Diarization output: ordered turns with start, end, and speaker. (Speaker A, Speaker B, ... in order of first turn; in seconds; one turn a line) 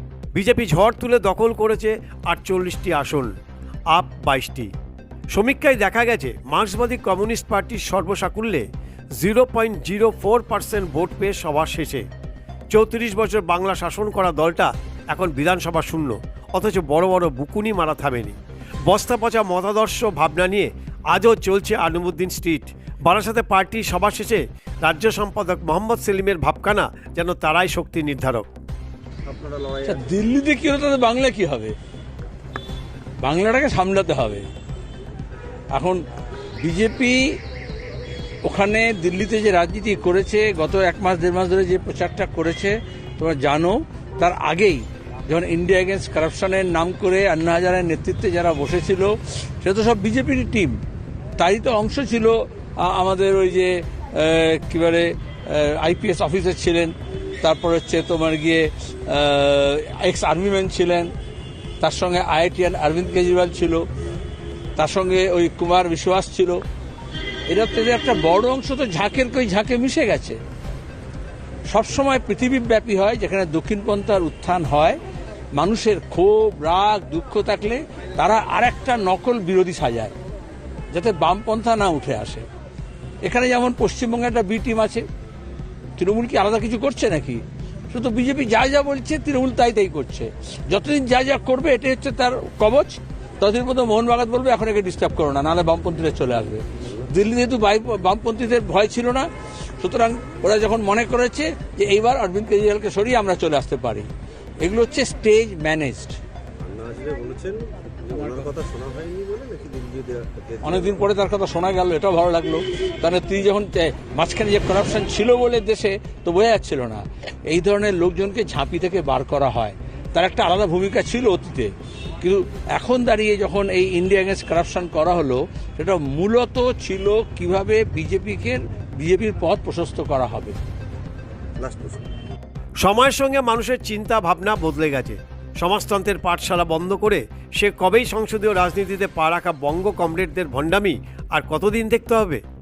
Speaker A: 0.3-3.3
Speaker A: 3.9-4.7
Speaker A: 5.3-8.7
Speaker A: 9.2-12.1
Speaker A: 12.7-28.5
Speaker B: 29.3-30.1
Speaker C: 29.8-31.8
Speaker C: 33.2-34.5
Speaker C: 35.7-36.0
Speaker C: 36.6-37.4
Speaker C: 38.4-50.8
Speaker C: 51.4-61.1
Speaker C: 61.8-63.8
Speaker C: 64.8-66.6
Speaker C: 67.5-70.4
Speaker C: 71.7-75.0
Speaker C: 75.5-80.1
Speaker C: 80.9-82.5
Speaker C: 83.2-85.0
Speaker C: 86.0-99.3
Speaker C: 99.8-104.1
Speaker C: 104.6-106.2
Speaker B: 106.6-111.0
Speaker C: 110.6-130.6
Speaker B: 131.6-132.0
Speaker A: 132.8-142.4